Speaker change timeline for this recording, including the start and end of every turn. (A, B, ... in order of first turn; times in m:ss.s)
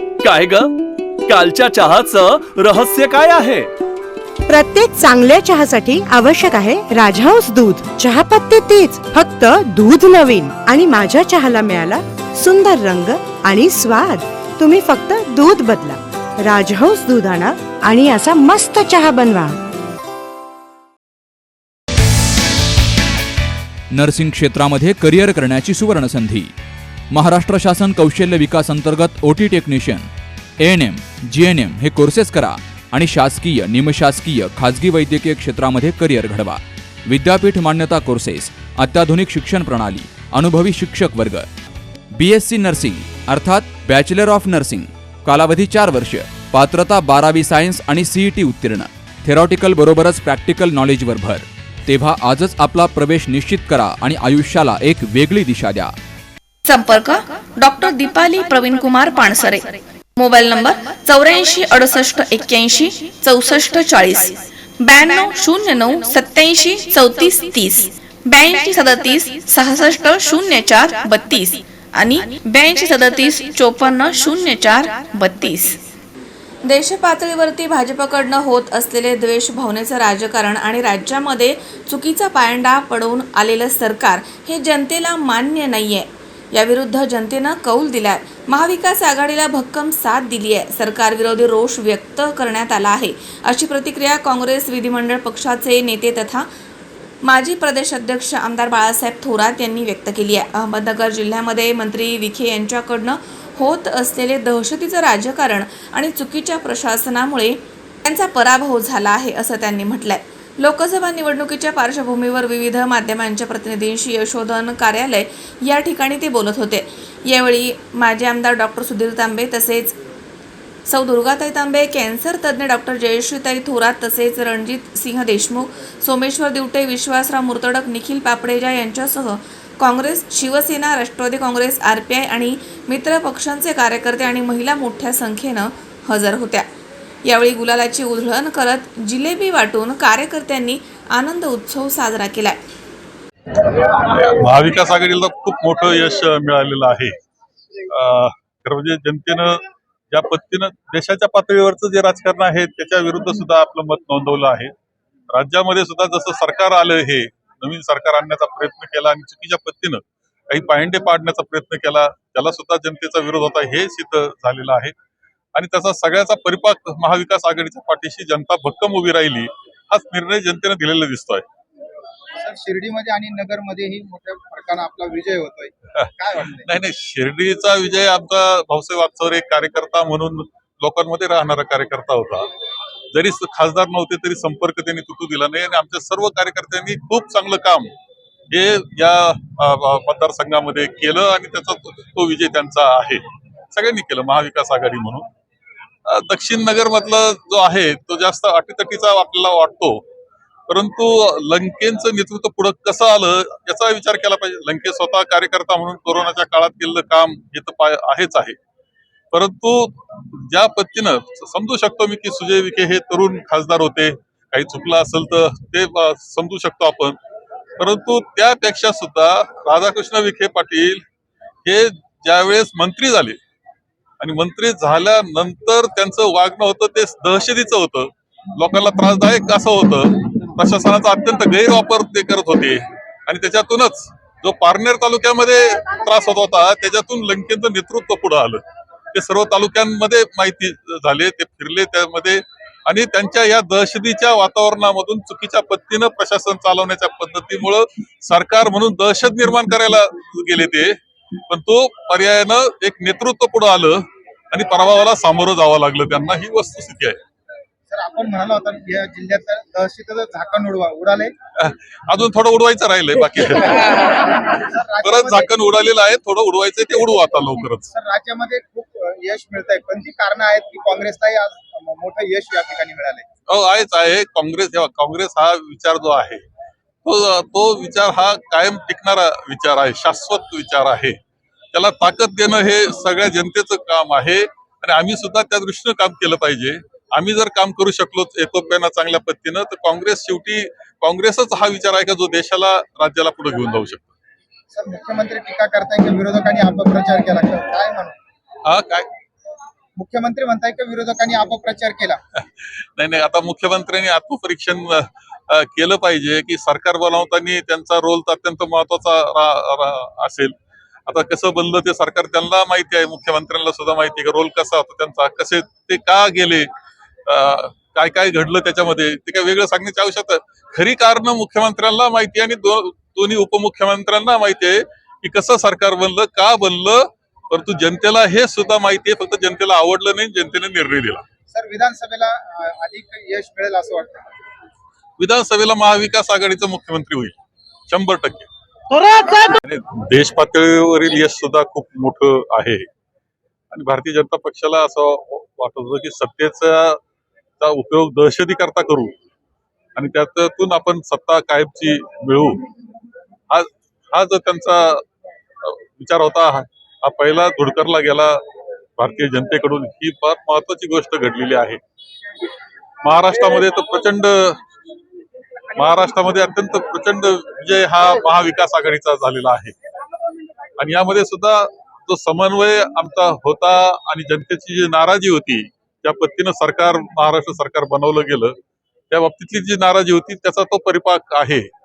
0:00.2-0:00.7 A
0:01.3-0:03.7 A
0:04.5-0:19.5 B
0:23.9-0:26.5 C
0:27.1-0:30.1 C
0:30.6-0:41.5 C
0:42.1-0:55.9 C
0:56.7-1:15.8 D
1:16.7-1:36.5 D
1:37.2-2:00.0 D
2:00.9-2:16.7 D
2:17.2-2:22.6 D
2:24.0-2:27.1 E
2:27.9-2:34.7 E
2:35.3-2:44.9 E
2:45.6-2:51.4 E
2:52.4-2:56.7 F
2:56.6-3:02.5 E
3:03.1-3:07.9 E
3:08.5-3:15.3 E
3:16.1-3:20.0 E
3:20.7-3:28.6 E
3:29.3-3:37.2 E
3:37.8-3:41.0 E
3:41.6-3:43.4 E
3:44.2-4:11.0 E
4:11.5-4:17.2 E
4:17.9-4:21.3 F
4:21.6-4:27.9 E
4:24.6-4:25.5 F
4:27.9-4:33.3 F
4:33.5-4:36.4 E
4:37.0-4:41.2 E
4:41.7-4:54.1 E
4:54.7-4:58.2 F
4:58.7-4:59.1 E
5:00.0-5:02.2 F
5:03.0-5:10.5 E
5:11.1-5:16.7 E
5:17.3-5:31.2 E
5:31.5-5:34.3 F
5:35.2-5:37.4 E
5:37.9-5:38.5 E
5:39.3-5:42.9 E
5:43.7-5:47.0 E
5:47.6-5:49.1 E
5:50.0-5:52.6 E
5:53.5-5:55.0 E
5:55.6-5:58.4 E
5:59.0-6:01.8 E
6:03.0-6:04.6 E
6:05.8-6:09.8 E
6:10.8-6:18.6 E
6:19.1-6:21.7 E